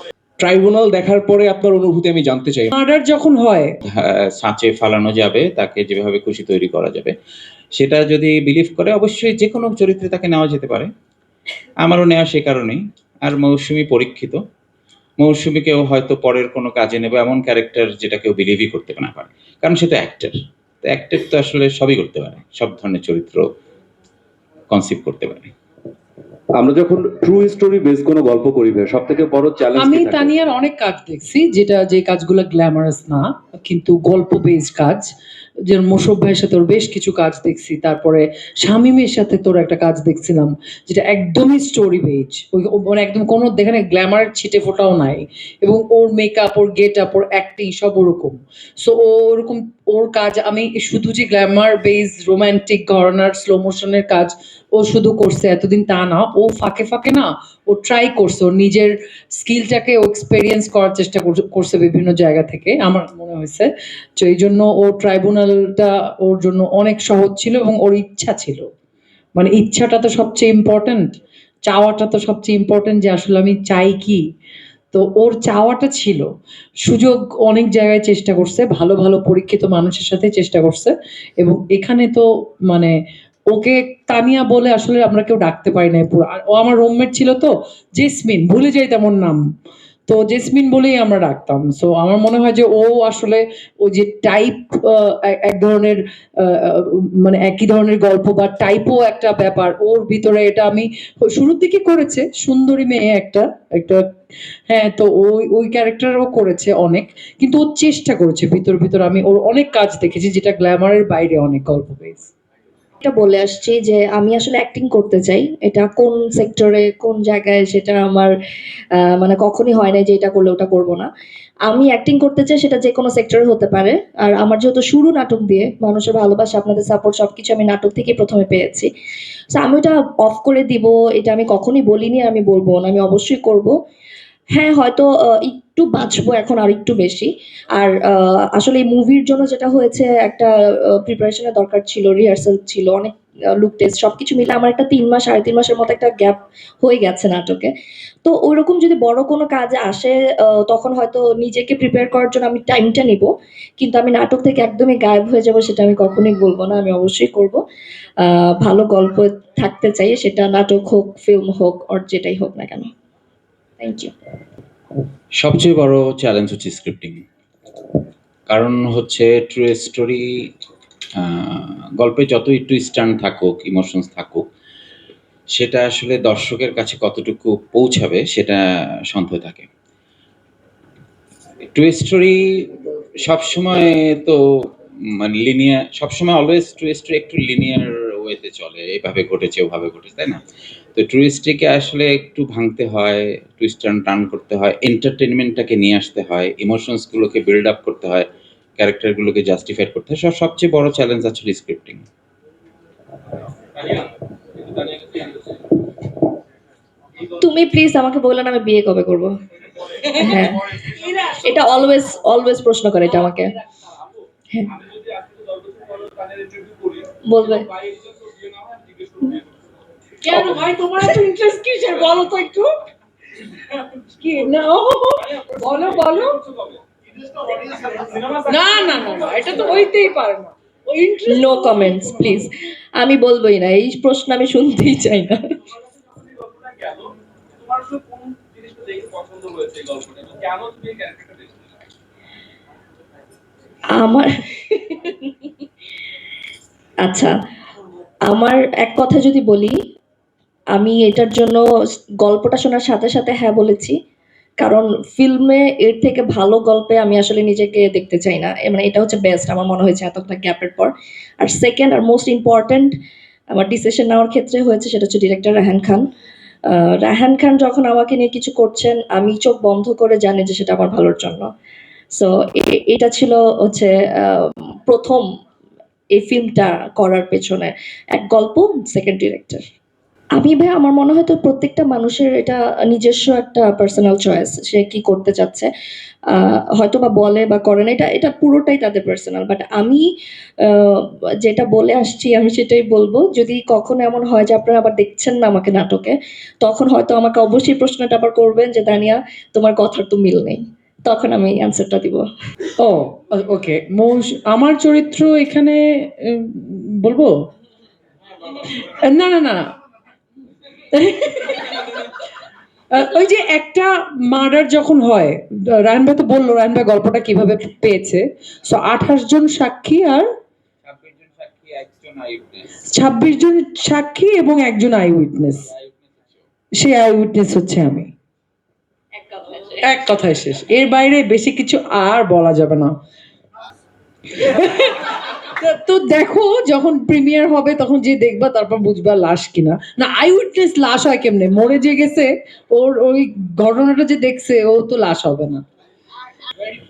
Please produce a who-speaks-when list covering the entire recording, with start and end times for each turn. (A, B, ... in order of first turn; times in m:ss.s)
0:00.4-0:02.7 A
0:02.7-0:03.7 B
0:03.9-0:07.1 C
0:07.7-0:10.9 C
0:11.8-0:14.4 C
0:15.2-0:23.5 C
0:24.7-0:25.5 C
0:26.5-0:30.5 D
0:29.8-0:35.1 B
0:35.7-1:08.7 B
1:09.4-1:14.2 B
1:14.9-1:16.2 B
1:16.8-1:22.9 B
1:23.5-1:29.4 B
1:30.1-1:44.1 B
1:44.7-1:52.3 B
1:53.0-1:58.3 E
1:59.0-2:01.1 E
2:01.7-2:08.9 E
2:09.5-2:13.7 E
2:14.5-2:27.7 E
2:28.2-2:37.6 E
2:38.2-2:42.9 E
2:43.8-2:44.1 E
2:45.4-2:47.2 C
2:48.5-2:50.2 C
2:51.2-2:54.4 C
2:55.5-2:58.6 C
2:59.1-2:59.7 C
3:01.7-3:04.4 C
3:05.2-3:10.4 C
3:10.9-3:18.2 C
3:18.8-3:22.0 C
3:27.3-3:29.3 E
3:30.1-3:33.5 E
3:37.3-3:37.7 E
3:40.2-3:42.7 B
3:43.7-3:46.4 B
3:48.4-3:52.1 B
3:51.3-3:55.6 E
4:04.0-4:05.2 E
4:07.0-4:07.3 E
4:08.3-4:09.7 E
4:10.7-4:11.6 E
4:12.2-4:14.0 E
4:14.6-4:22.9 E
4:23.5-4:26.0 E
4:26.7-4:31.5 E
4:32.1-4:35.2 E
4:36.2-4:39.6 E
4:40.4-4:45.7 E
4:46.3-4:50.0 E
4:50.6-5:02.2 E
5:02.8-5:07.3 B
5:08.6-5:09.6 B
5:10.9-5:12.0 B
5:12.9-5:20.2 B
5:20.8-5:22.7 C
5:22.9-5:25.7 B
5:25.7-5:26.3 C
5:26.8-5:28.1 B
5:29.8-5:32.9 B
5:34.3-5:45.6 B